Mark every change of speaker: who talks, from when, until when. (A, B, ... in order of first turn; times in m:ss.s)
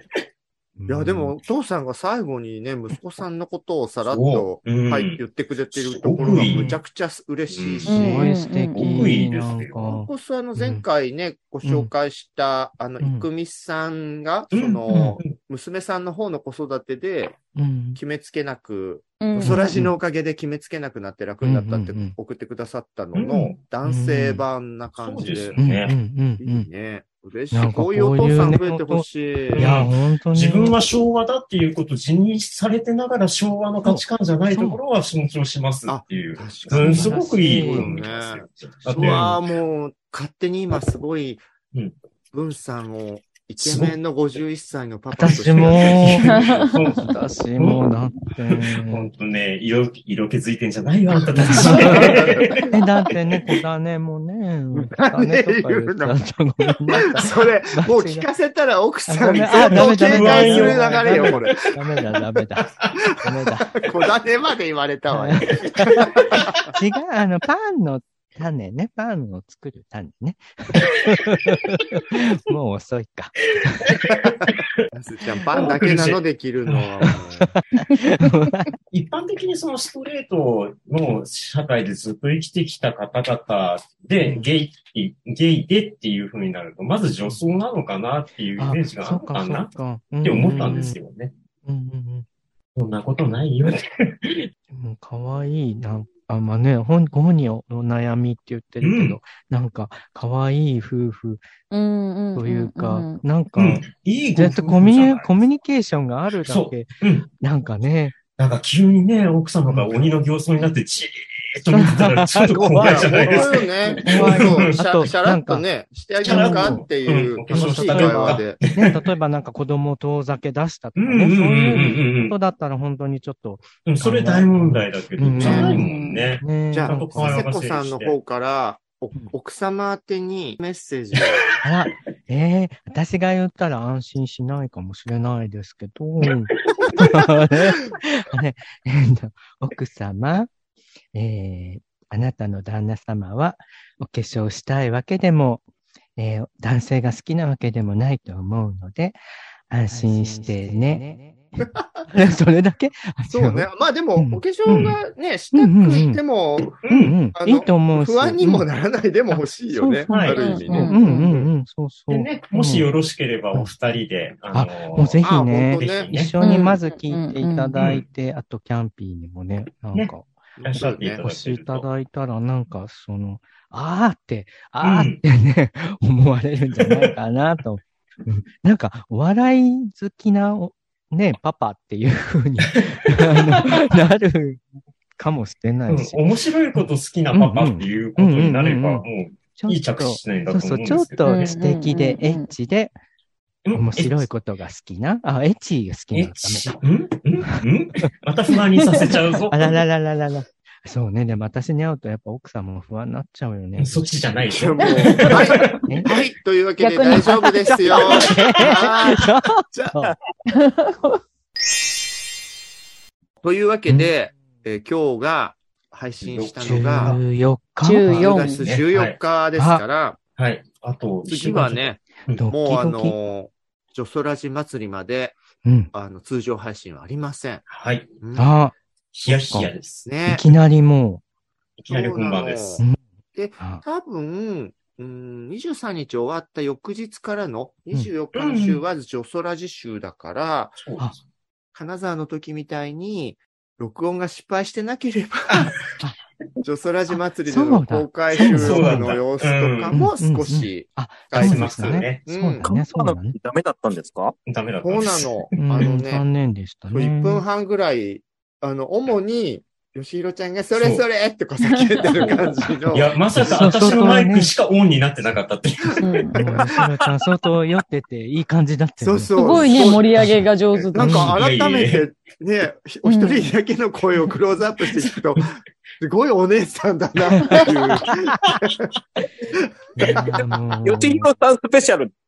0:00.8-0:01.4 A
0:00.9-0:08.3 B
0:04.0-0:05.2 C
0:05.7-0:06.7 C
0:06.2-0:06.8 A
0:07.5-0:08.1 C
0:07.9-0:09.2 D
0:08.0-0:10.8 A
0:08.7-0:09.8 C
0:09.8-0:17.4 B
0:11.6-0:11.9 A
0:13.0-0:13.2 A
0:14.5-0:15.4 C
0:17.5-0:18.0 A
0:18.0-0:25.6 B
0:19.2-0:19.7 D
0:19.4-0:19.9 A
0:21.4-0:22.2 A
0:23.1-0:23.6 C
0:23.8-0:24.4 A
0:25.0-0:25.9 C
0:25.6-0:26.7 A
0:26.4-0:29.8 B
0:27.5-0:30.8 A
0:29.5-0:39.4 C
0:33.8-0:34.8 A
0:35.9-0:41.4 B
0:36.7-0:37.9 A
0:39.0-0:39.2 A
0:42.3-0:46.5 B
0:43.6-0:44.0 C
0:45.1-0:46.3 A
0:45.2-0:47.9 C
0:47.0-0:49.1 A
0:48.5-0:52.7 C
0:51.3-0:58.3 A
0:51.4-0:52.8 B
0:54.7-0:56.2 B
0:56.9-1:01.5 B
0:59.1-1:03.8 A
0:59.6-1:01.7 C
1:02.6-1:02.9 C
1:03.4-1:06.7 B
1:05.1-1:14.1 A
1:05.9-1:06.5 C
1:13.8-1:14.7 C
1:14.9-1:17.5 B
1:15.5-1:17.1 C
1:17.0-1:18.7 A
1:18.9-1:31.3 C
1:24.2-1:24.5 A
1:28.6-1:31.0 A
1:31.6-1:32.2 A
1:32.8-1:34.5 C
1:34.7-1:41.4 A
1:38.8-1:39.2 C
1:41.7-1:43.2 D
1:42.3-1:48.2 A
1:43.6-1:45.3 C
1:46.4-1:47.3 C
1:48.4-1:54.8 C
1:49.7-1:50.1 A
1:51.7-1:53.4 A
1:52.6-1:58.6 B
1:54.0-1:55.6 A
1:56.2-1:56.8 A
1:56.2-1:59.0 C
1:57.5-2:07.4 A
2:01.0-2:02.3 C
2:03.8-2:08.1 C
2:05.4-2:05.8 B
2:05.4-2:06.3 D
2:06.7-2:11.4 B
2:11.6-2:20.5 A
2:21.1-2:25.6 A
2:26.2-2:29.2 A
2:29.7-2:35.0 A
2:33.3-2:36.8 B
2:35.5-2:36.2 A
2:36.8-2:37.2 C
2:36.9-2:38.7 A
2:37.3-2:41.5 B
2:39.3-2:40.1 A
2:40.1-2:40.9 C
2:40.1-2:41.3 D
2:40.7-2:42.9 A
2:42.1-2:46.3 C
2:44.5-2:50.3 A
2:45.2-2:46.1 B
2:46.4-2:47.7 D
2:47.8-2:48.0 C
2:50.6-2:51.2 B
2:50.6-2:51.9 C
2:51.2-3:04.6 A
2:54.8-2:55.2 C
3:02.7-3:03.6 C
3:05.2-3:06.2 A
3:05.9-3:11.5 C
3:06.8-3:12.9 A
3:11.2-3:12.5 D
3:13.6-3:14.3 C
3:13.7-3:16.8 A
3:16.1-3:19.8 C
3:17.5-3:18.1 A
3:18.8-3:19.1 D
3:19.5-3:24.1 A
3:23.8-3:25.7 C
3:24.5-3:29.9 B
3:25.2-3:25.7 D
3:25.9-3:26.1 A
3:26.8-3:28.9 D
3:27.6-3:30.1 A
3:30.6-3:31.2 D
3:33.4-3:37.2 B
3:36.2-3:37.2 C
3:36.6-3:38.3 A
3:37.8-3:38.6 D
3:38.0-3:40.2 B
3:38.4-3:39.2 C
3:39.6-3:39.8 A
3:40.4-3:42.5 C
3:41.3-3:45.4 B
3:42.3-3:43.3 A
3:45.6-3:45.9 A
3:45.9-3:47.6 B
3:47.7-3:48.1 C
3:48.2-3:48.5 B
3:48.4-3:48.7 A
3:49.1-3:50.1 C
3:49.3-3:49.7 A
3:50.0-3:50.4 B
3:50.3-3:51.2 A
3:51.8-3:52.8 C
3:51.9-4:00.8 B
3:58.3-3:58.8 C
4:00.8-4:01.1 C
4:01.7-4:05.7 B
4:05.5-4:05.7 C
4:06.6-4:12.7 B
4:07.4-4:09.2 A
4:08.4-4:10.0 C
4:09.9-4:13.4 A
4:11.3-4:12.2 C
4:12.6-4:14.3 E
4:14.5-4:15.9 C
4:14.8-4:16.2 B
4:15.6-4:17.4 A
4:16.9-4:23.9 B
4:20.7-4:21.0 C
4:21.7-4:22.4 D
4:22.9-4:26.1 C
4:23.4-4:24.5 A
4:26.0-4:26.7 B
4:26.0-4:26.4 D
4:26.3-4:31.4 A
4:26.6-4:27.1 E
4:29.0-4:30.1 B
4:29.4-4:31.1 D
4:30.9-4:38.9 B
4:31.1-4:32.1 C
4:33.0-4:33.5 D
4:37.5-4:38.2 A
4:40.0-4:41.3 A
4:40.0-4:42.1 E